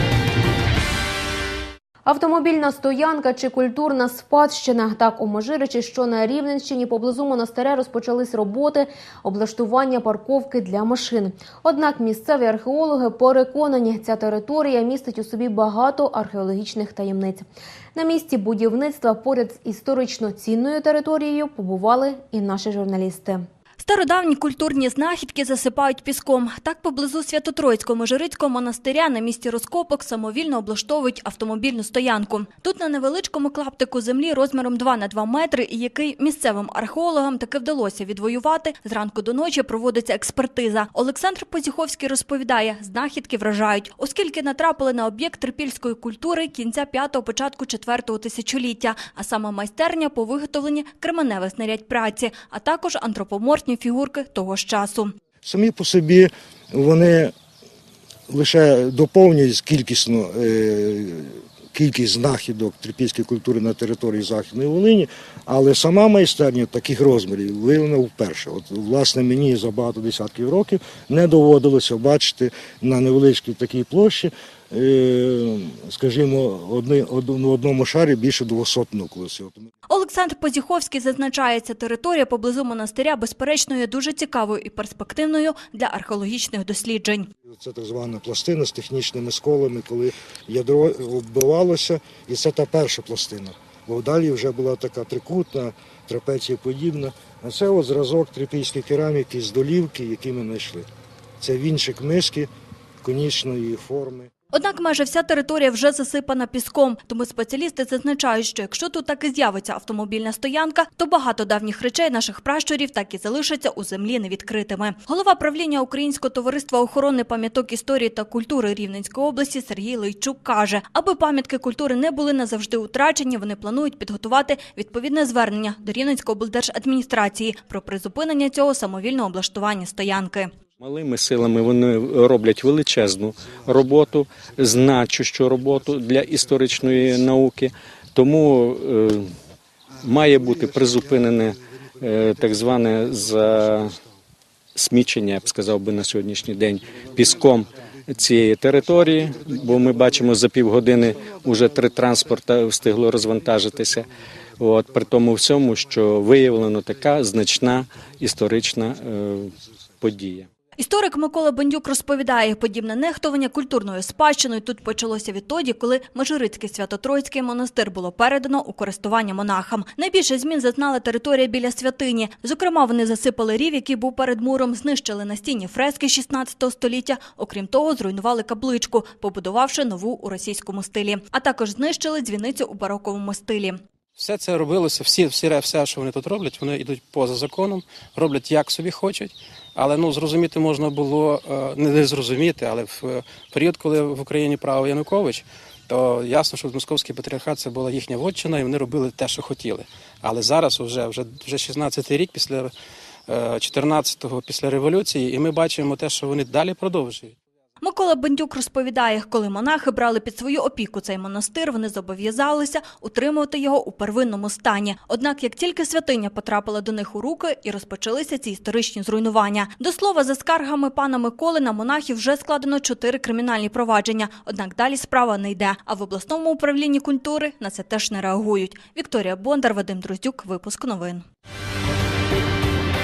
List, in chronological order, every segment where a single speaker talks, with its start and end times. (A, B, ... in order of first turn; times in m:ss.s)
0:02.0-0:23.4 A
0:23.8-0:55.1 B
0:55.4-0:57.3 C
0:58.3-1:19.7 C
1:19.9-1:27.3 B
1:27.5-1:40.9 C
1:41.4-1:42.5 C
1:43.0-1:44.3 C
1:44.5-2:10.5 B
2:10.8-2:19.3 D
2:20.0-2:24.0 D
2:24.8-2:40.4 D
2:40.8-3:03.8 B
3:04.2-3:22.7 E
3:23.3-3:27.3 E
3:27.8-3:51.2 B